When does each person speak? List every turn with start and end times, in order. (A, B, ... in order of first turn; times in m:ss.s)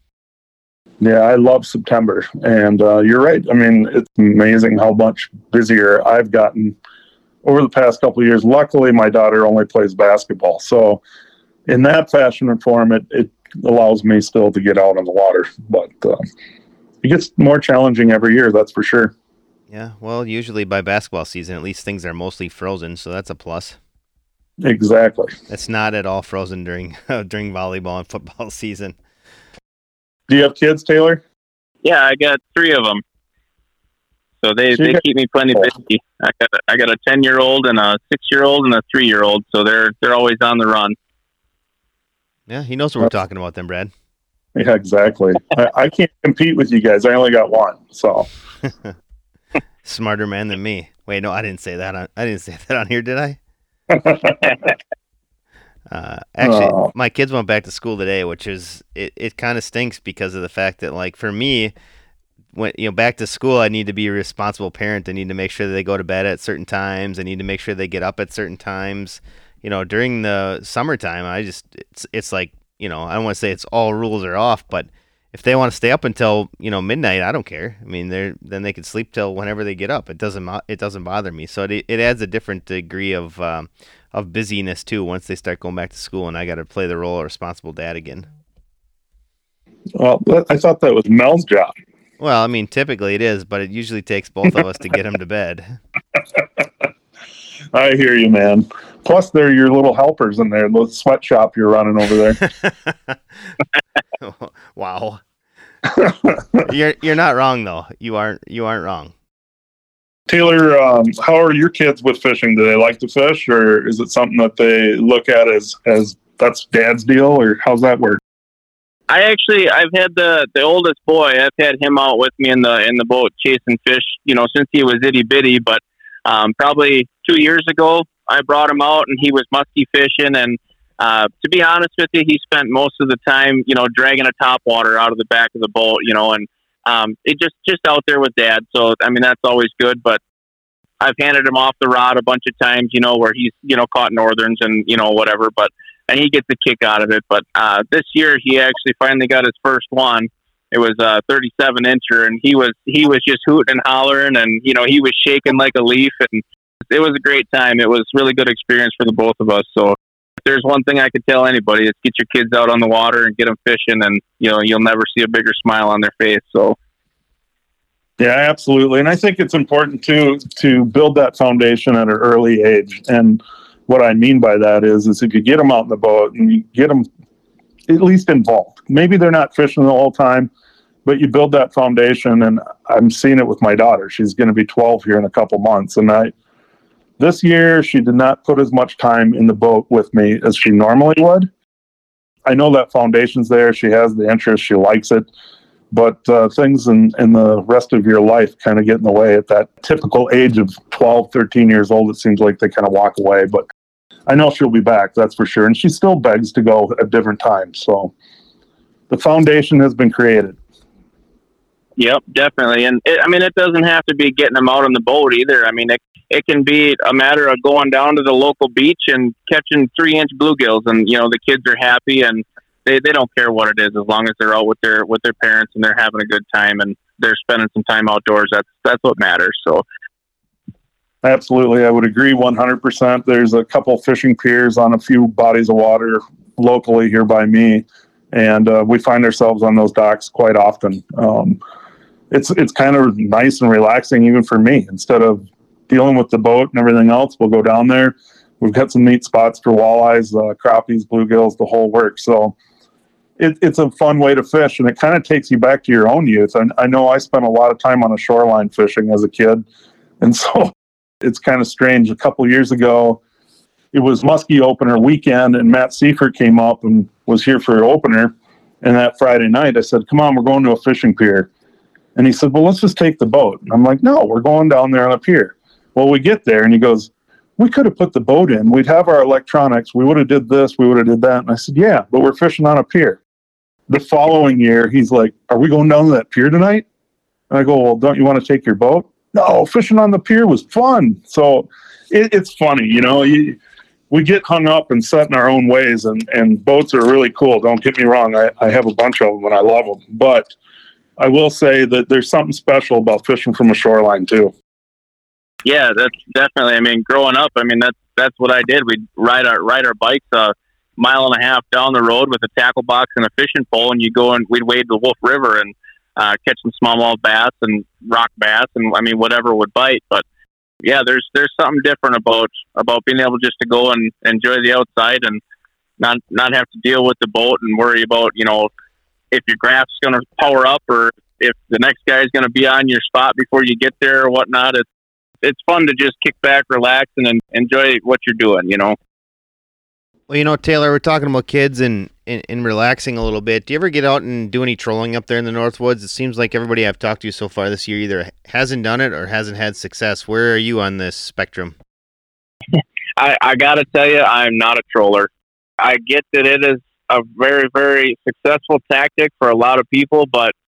0:01.0-0:06.8 A
0:07.4-0:11.0 A
0:11.7-0:16.2 A
0:17.0-0:19.1 A
0:19.7-0:23.8 B
0:24.6-0:25.3 A
0:25.5-0:29.0 B
0:30.3-0:31.2 A
0:31.8-0:33.0 C
0:34.4-0:41.0 C
0:34.7-0:35.0 A
0:42.5-0:43.9 B
0:44.5-0:48.3 A
0:49.8-0:53.4 B
0:53.9-0:54.6 A
0:55.9-1:01.7 B
0:56.4-0:56.9 A
1:02.5-1:28.3 B
1:30.0-1:31.7 A
1:32.2-1:35.8 B
1:37.7-1:42.4 A
1:42.4-1:43.6 B
1:44.2-1:45.2 B
1:46.0-1:46.6 A
1:46.5-1:49.1 B
1:50.3-1:58.2 A
1:59.1-2:20.2 C
2:21.0-2:46.8 C
2:48.2-2:57.0 A
2:57.9-3:00.5 A
3:01.0-3:06.3 A
3:07.2-3:11.5 A
3:12.4-3:15.3 A
3:15.9-3:23.7 A
3:24.3-3:28.1 A
3:29.1-3:30.6 A
3:32.0-3:49.8 C
3:51.2-4:01.6 A
4:02.3-4:12.5 A
4:13.4-4:19.6 A
4:20.2-4:23.2 A
4:23.9-4:31.5 A
4:32.2-4:43.2 A
4:43.9-4:46.8 A
4:47.5-4:53.6 A
4:54.1-5:00.5 A
5:01.2-5:04.5 A
5:05.6-5:20.2 C
5:20.8-5:25.4 C
5:26.0-5:28.7 C
5:29.3-5:34.8 C
5:35.4-5:39.0 C
5:40.3-5:51.8 B
5:52.8-6:00.5 C